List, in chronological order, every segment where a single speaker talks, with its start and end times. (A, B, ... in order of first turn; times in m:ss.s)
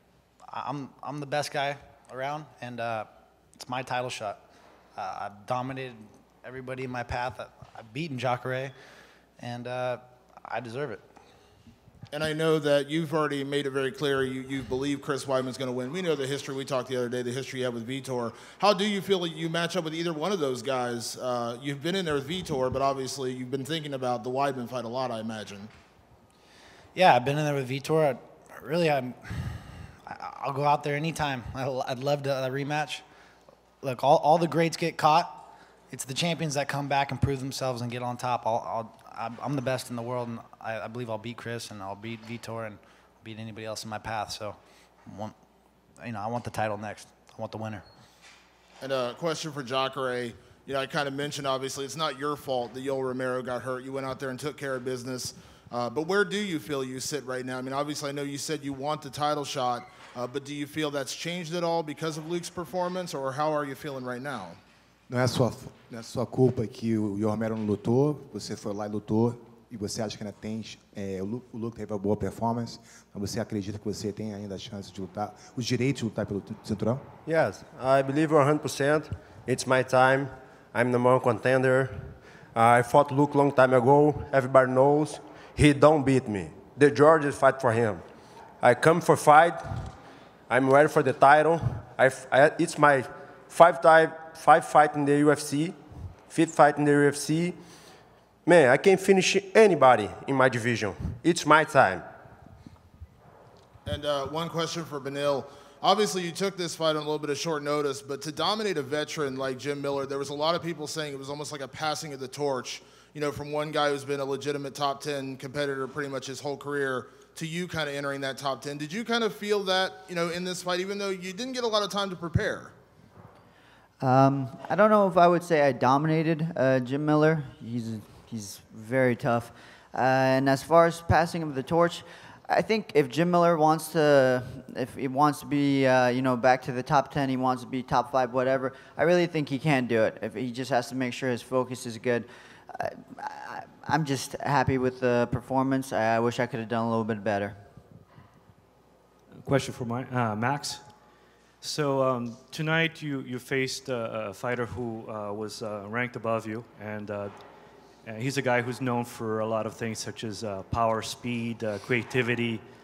0:00.5-0:04.4 A
0:05.0-0:08.7 A
0:09.4-0:11.1 A
0:12.1-0:25.7 B
0:27.0-0:33.0 A
0:33.8-0:45.4 A
0:46.0-0:47.8 A
0:48.8-1:04.6 B
1:05.1-1:17.1 C
1:17.3-1:28.0 D
1:28.6-1:30.0 D
1:30.5-1:37.6 D
1:38.4-1:42.1 D
1:43.9-2:02.7 B
2:04.0-2:27.7 E
2:29.4-2:30.9 F
2:31.6-2:37.4 F
2:38.0-2:42.6 F